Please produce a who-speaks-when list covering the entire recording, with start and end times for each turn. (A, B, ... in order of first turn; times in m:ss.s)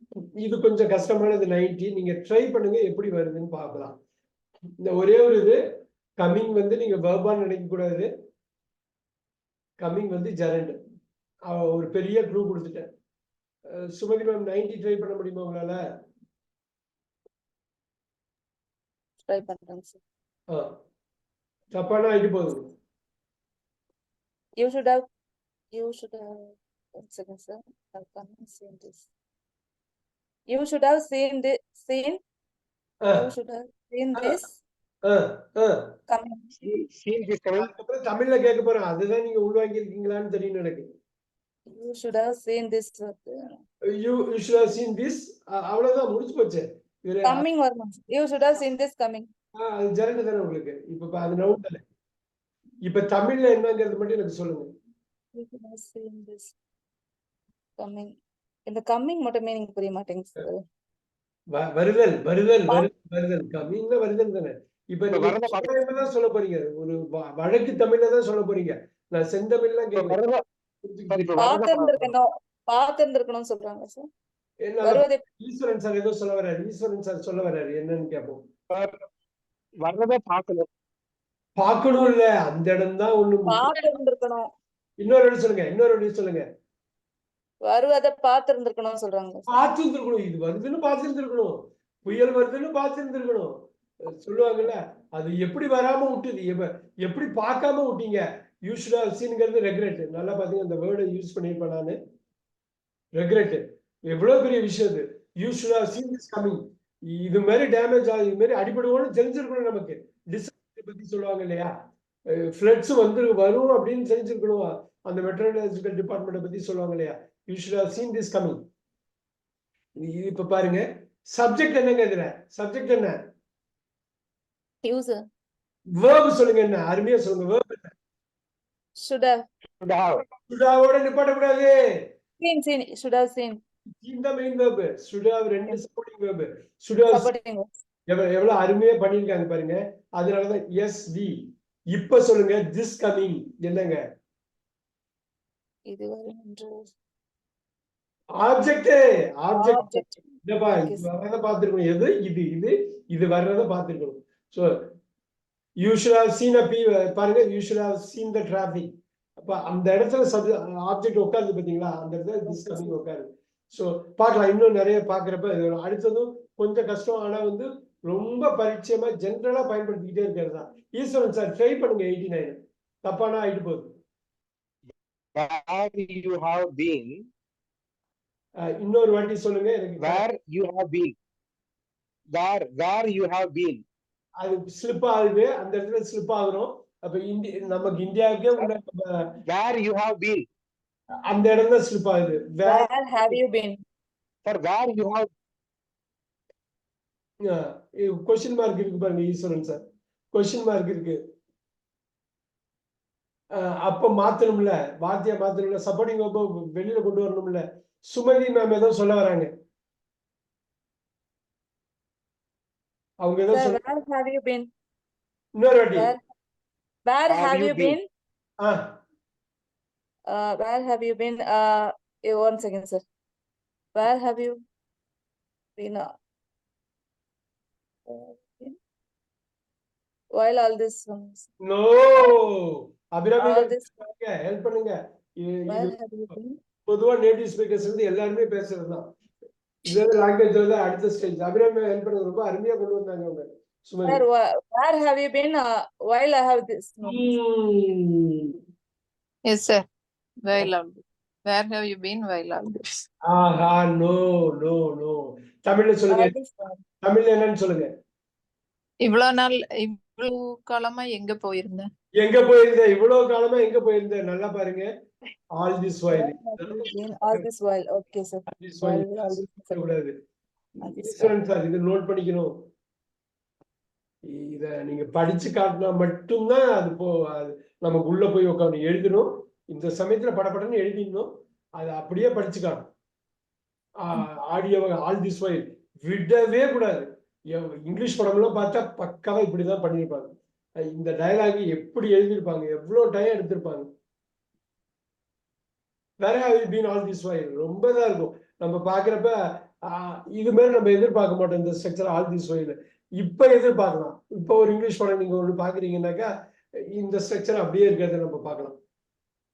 0:00.4-0:04.0 A
0:04.8-0:05.6 A
0:06.2-0:08.1 A
0:09.8-0:10.8 A
0:11.5-0:12.9 A
0:13.7-0:15.8 A
0:19.2-0:20.0 B
0:20.5-0:20.8 A
0:21.7-0:22.7 A
0:24.6-0:25.1 B
0:25.7-0:29.0 B
0:30.5-0:32.2 B
0:33.1-0:34.6 B
0:35.0-0:35.9 A
0:36.1-0:36.6 B
0:36.6-0:37.7 C
0:37.6-0:40.9 A
0:41.7-0:43.6 B
0:44.0-0:47.5 A
0:47.2-0:49.3 B
0:49.6-0:51.8 A
0:52.8-0:54.7 A
0:55.4-0:56.5 B
0:57.8-0:58.1 B
0:58.7-1:00.6 B
1:01.5-1:10.2 A
1:05.1-1:05.8 C
1:10.0-1:10.4 C
1:10.8-1:11.4 A
1:11.1-1:12.1 C
1:11.4-1:14.1 B
1:14.6-1:18.4 A
1:14.8-1:15.2 B
1:19.8-1:20.7 C
1:21.6-1:23.8 A
1:23.5-1:24.5 B
1:25.0-1:26.4 A
1:27.7-1:29.6 B
1:29.5-1:33.5 A
1:34.2-1:42.0 A
1:43.2-1:51.7 A
1:52.3-1:58.6 A
2:00.0-2:03.2 A
2:04.8-2:05.2 B
2:06.0-2:07.9 A
2:09.0-2:09.4 B
2:09.8-2:10.2 C
2:10.5-2:11.8 A
2:12.4-2:13.6 B
2:14.0-2:17.3 A
2:17.1-2:17.7 B
2:18.1-2:24.0 A
2:25.9-2:26.8 B
2:28.4-2:34.8 A
2:29.5-2:31.1 B
2:35.8-2:38.9 A
2:39.4-2:53.9 A
2:42.4-2:43.0 B
2:55.4-2:57.3 C
2:58.7-3:00.2 A
3:00.0-3:01.2 C
3:02.3-3:03.8 C
3:04.4-3:09.4 A
3:09.5-3:10.5 C
3:11.3-3:13.4 A
3:12.6-3:13.8 B
3:14.4-3:15.3 C
3:17.5-3:19.8 A
3:20.3-3:21.2 A
3:23.6-3:29.5 A
3:33.2-3:33.8 A
3:33.5-3:34.7 B
3:35.6-3:36.1 A
3:37.1-3:38.1 B
3:37.3-3:38.0 C
3:38.6-3:39.0 A
3:40.3-3:43.0 B
3:44.0-3:44.6 B
3:45.8-3:46.1 B
3:48.1-3:48.8 B
3:50.4-3:51.5 B
3:51.6-3:56.0 A
3:53.4-3:53.9 B
3:55.7-3:56.6 B
3:56.9-3:59.1 A
3:59.8-4:04.2 A
4:04.0-4:07.4 B
4:07.0-4:08.5 A
4:09.5-4:09.9 D
4:10.4-4:13.0 D
4:13.3-4:16.3 A
4:16.1-4:16.8 B
4:17.0-4:17.9 A
4:19.0-4:21.9 D
4:22.2-4:24.9 A
4:25.6-4:27.5 A
4:26.1-4:29.8 B
4:28.5-4:30.1 A
4:30.8-4:31.4 B
4:31.0-4:32.5 A
4:34.3-4:42.9 A
4:44.0-4:50.4 A
4:50.9-4:53.9 A
4:56.2-4:59.4 A
4:59.9-5:06.3 A
5:07.0-5:08.8 A